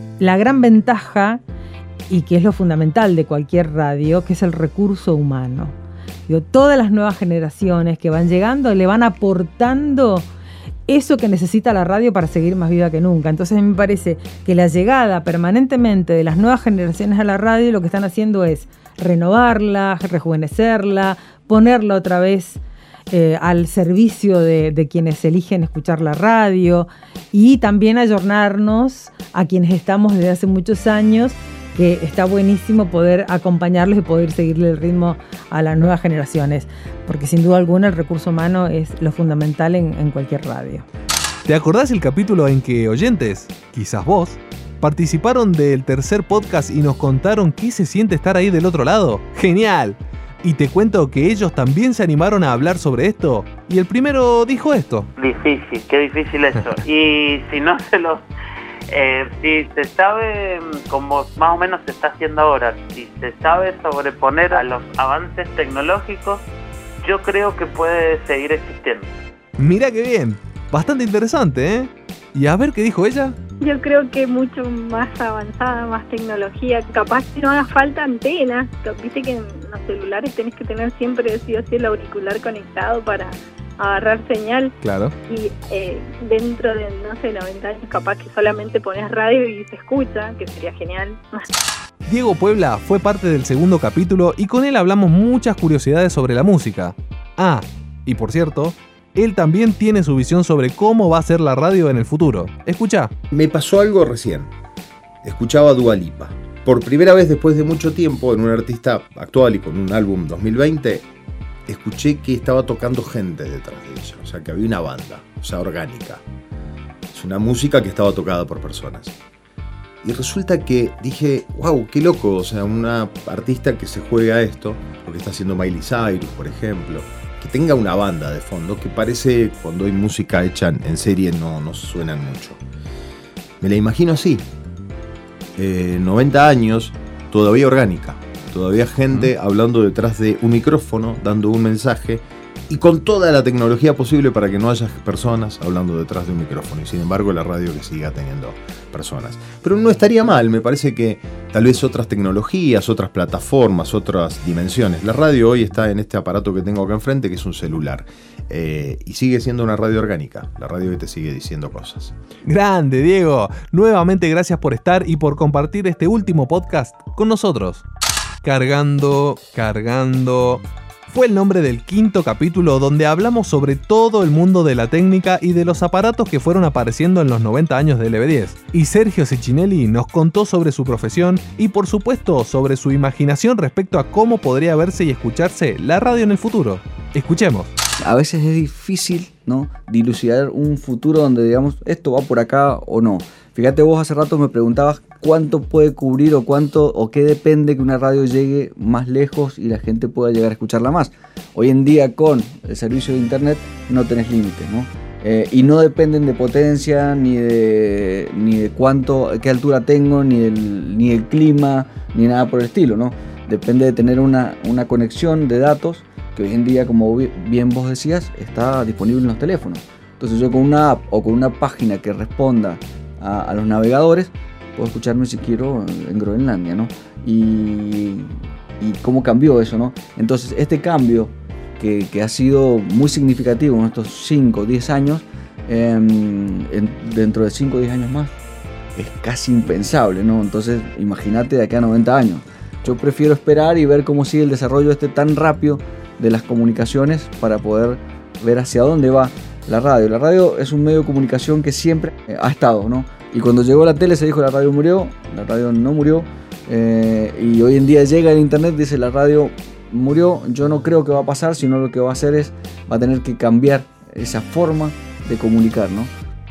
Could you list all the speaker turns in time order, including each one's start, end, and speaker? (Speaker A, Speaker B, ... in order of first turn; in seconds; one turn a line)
Speaker A: 0.2-1.4
Speaker A: 2.1-5.8
Speaker A: 6.3-10.3
Speaker A: 10.9-40.8
Speaker B: 41.5-55.1
Speaker C: 55.2-58.2
Speaker C: 58.9-66.4
Speaker C: 67.0-69.1
Speaker B: 69.6-73.3
Speaker D: 73.6-84.7
Speaker B: 84.8-85.1
Speaker D: 85.3-91.5
Speaker B: 92.1-103.1
Speaker E: 103.3-104.5
Speaker E: 105.2-111.1
Speaker E: 111.7-116.2
Speaker E: 117.1-119.1
Speaker E: 120.0-132.6
Speaker E: 133.6-134.4
Speaker E: 135.6-162.1
Speaker B: 162.4-167.8
Speaker B: 168.4-187.7
Speaker F: 188.0-238.3
Speaker F: 238.9-266.1